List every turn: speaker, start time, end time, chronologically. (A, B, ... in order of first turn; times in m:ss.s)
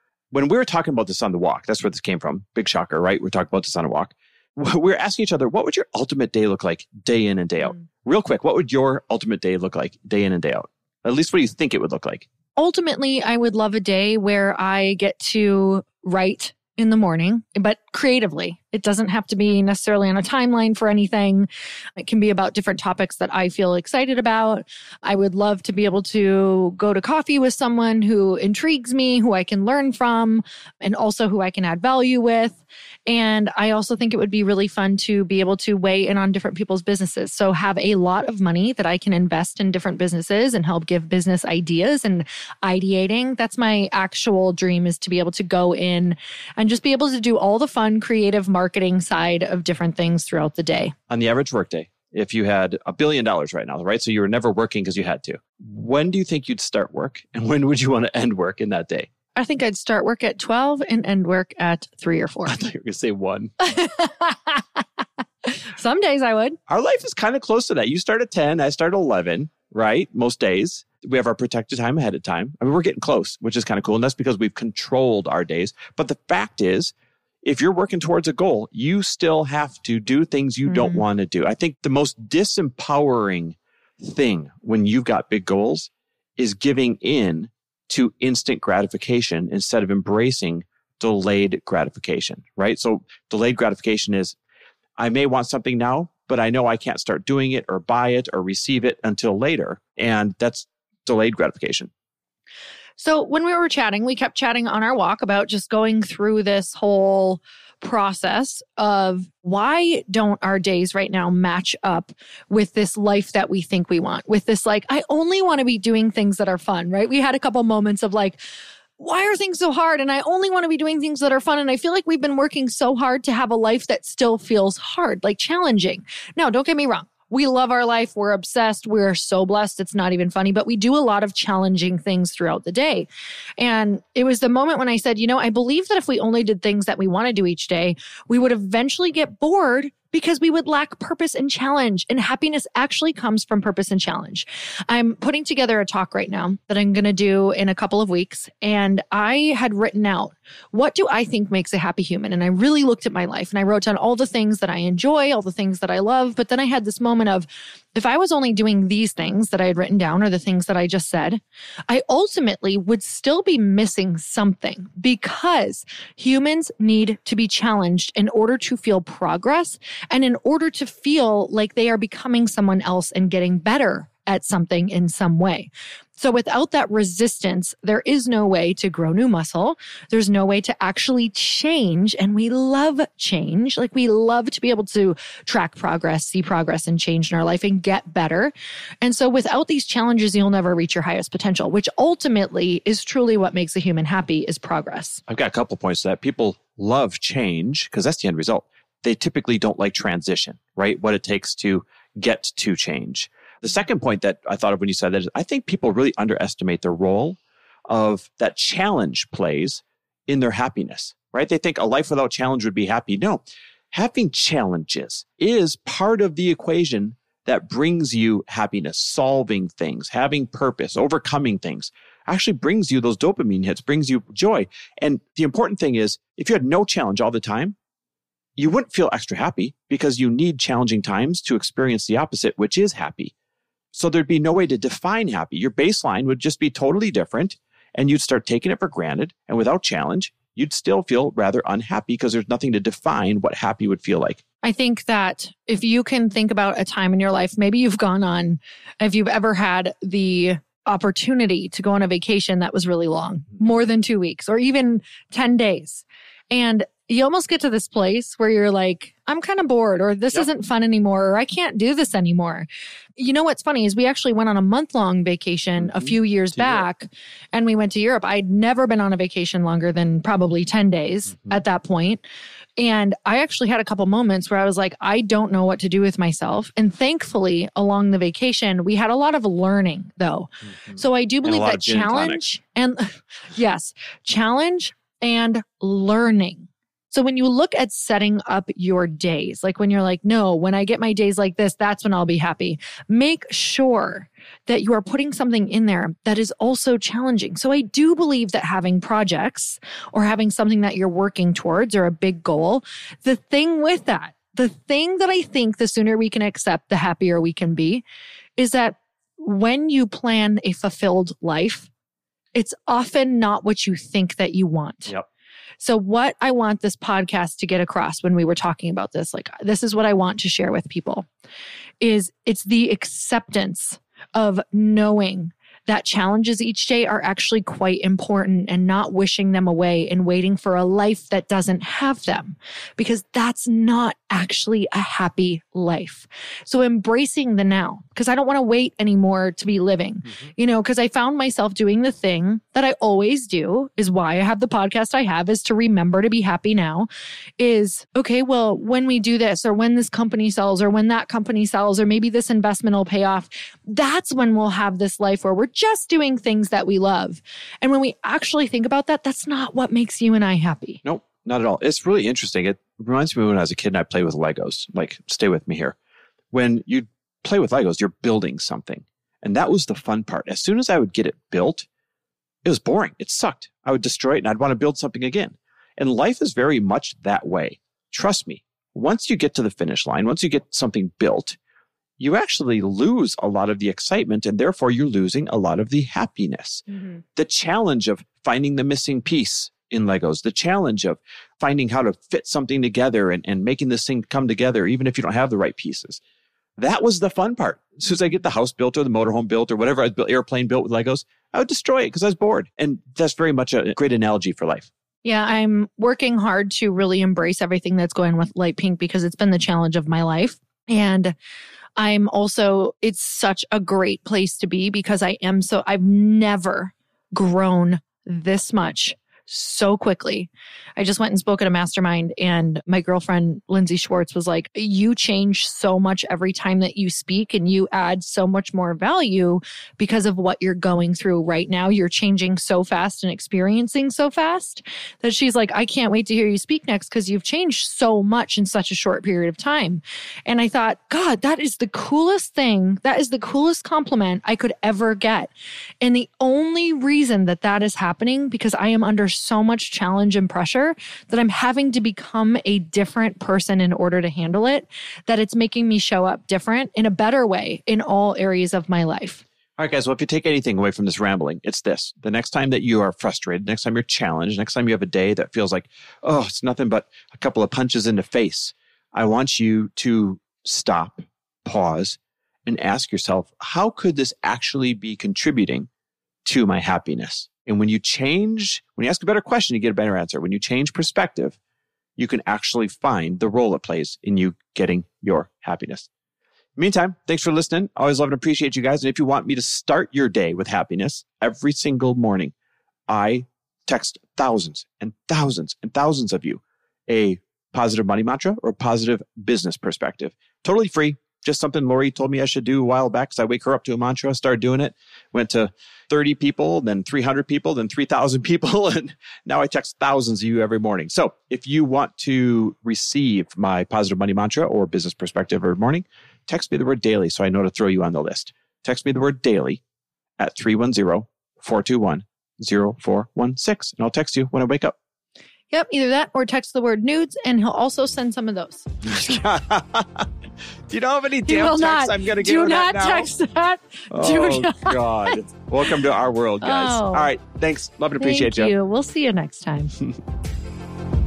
0:00.3-0:12.3 A
0:12.6-0:50.9 B
0:51.1-0:59.1 A
0:59.3-1:02.6 B
1:02.4-1:03.5 A
1:03.6-1:04.8 B
1:05.4-1:06.6 B
1:06.7-1:34.4 A
1:20.7-1:21.0 B
1:35.0-1:41.9 A
1:43.0-1:58.4 B
1:59.0-3:15.2 B
3:15.3-3:27.4 A
3:27.9-3:47.8 A
3:48.6-3:53.3 A
3:53.9-4:04.4 A
4:04.6-4:32.2 B
4:25.8-4:26.8 A
4:32.8-5:08.0 B
4:40.9-4:42.4 A
5:08.6-5:11.9 B
5:12.5-5:15.1 B
5:15.8-5:21.3 B
5:22.0-6:01.0 B
6:01.0-6:06.0 A
6:06.5-6:11.9 A
6:12.6-6:21.6 A
6:22.2-6:26.8 A
6:27.4-6:36.2 A
6:36.8-6:44.9 A
6:45.2-6:51.3 B
6:52.0-7:39.4 B
7:39.8-7:55.9 A
7:56.4-8:01.6 A
8:02.2-8:06.1 A
8:06.8-8:12.5 A
8:13.1-8:39.8 A
8:40.4-8:45.0 A
8:45.7-8:48.9 B
8:49.0-8:50.3 A
8:50.9-8:53.3 A
8:51.5-8:55.4 B
8:54.1-8:58.7 A
8:56.6-8:57.3 B
8:58.2-9:00.0 B